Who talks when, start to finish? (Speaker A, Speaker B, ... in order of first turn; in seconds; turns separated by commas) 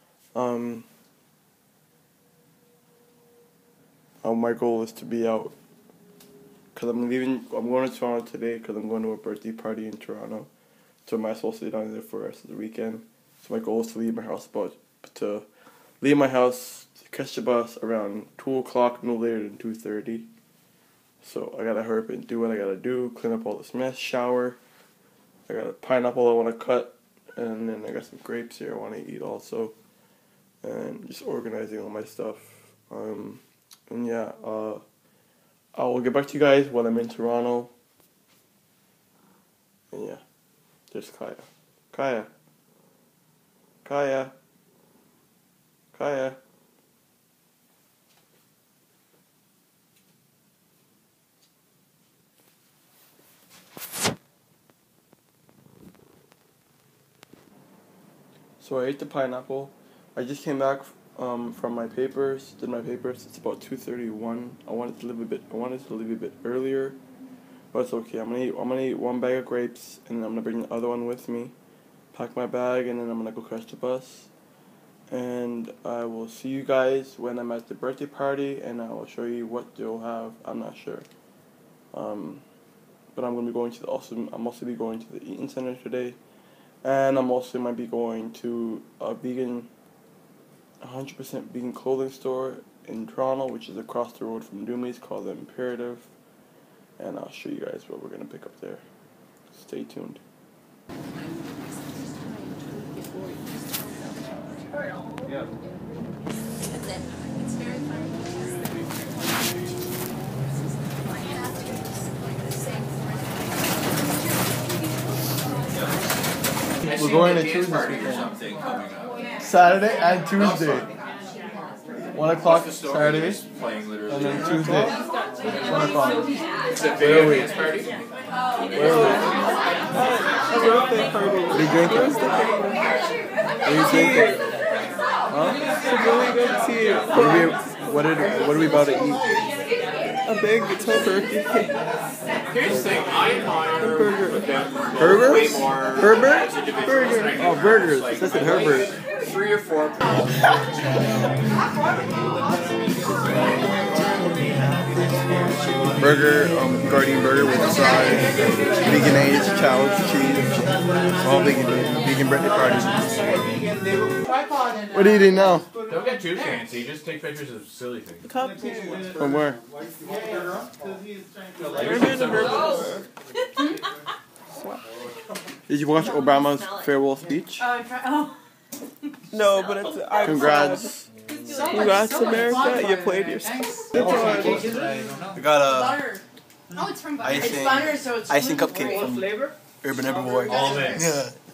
Speaker A: 0.3-0.9, Speaker A: 4.2-5.5, Speaker A: 6.7-10.5, Speaker A: 11.1-15.4, Speaker A: 16.0-20.3, Speaker A: 21.2-24.6, Speaker A: 25.5-29.8, Speaker A: 30.6-34.8, Speaker A: 35.8-37.7, Speaker A: 39.9-40.2, Speaker A: 40.9-42.3, Speaker A: 43.8-44.3, Speaker A: 45.9-46.4, Speaker A: 58.6-67.0, Speaker A: 67.7-71.5, Speaker A: 72.1-74.3, Speaker A: 75.1-81.0, Speaker A: 81.9-82.4, Speaker A: 83.1-86.2, Speaker A: 86.8-89.7, Speaker A: 90.8-96.1, Speaker A: 97.0-98.8, Speaker A: 99.5-100.2, Speaker A: 116.8-118.3, Speaker B: 116.9-118.2, Speaker A: 119.4-120.9, Speaker A: 122.1-123.4, Speaker A: 124.1-125.0, Speaker C: 124.5-124.9, Speaker A: 125.6-126.3, Speaker B: 126.7-127.9, Speaker A: 127.0-127.5, Speaker A: 128.7-129.3, Speaker C: 128.8-129.3, Speaker C: 129.9-132.8, Speaker A: 131.5-132.2, Speaker A: 133.7-134.4, Speaker C: 133.8-134.4, Speaker A: 135.3-135.6, Speaker C: 135.9-138.2, Speaker A: 137.1-139.3, Speaker C: 140.3-141.7, Speaker B: 142.5-148.4, Speaker C: 143.8-144.4, Speaker A: 145.0-146.5, Speaker C: 146.8-147.4, Speaker A: 147.4-148.9, Speaker B: 149.3-150.0, Speaker A: 156.0-160.6, Speaker A: 161.2-163.1, Speaker A: 164.9-165.7, Speaker B: 165.9-168.3, Speaker C: 168.2-169.1, Speaker A: 169.2-169.6, Speaker C: 171.7-173.1, Speaker B: 171.8-172.7, Speaker D: 171.9-172.5, Speaker C: 174.6-174.8, Speaker A: 175.7-177.7, Speaker D: 177.6-178.3, Speaker C: 179.3-180.9, Speaker A: 180.2-181.1, Speaker D: 181.6-183.2, Speaker C: 181.7-184.7, Speaker D: 184.2-184.9, Speaker A: 185.3-186.0, Speaker A: 187.2-189.2, Speaker D: 187.3-189.3, Speaker A: 189.8-191.3, Speaker D: 190.3-191.1, Speaker B: 190.6-191.0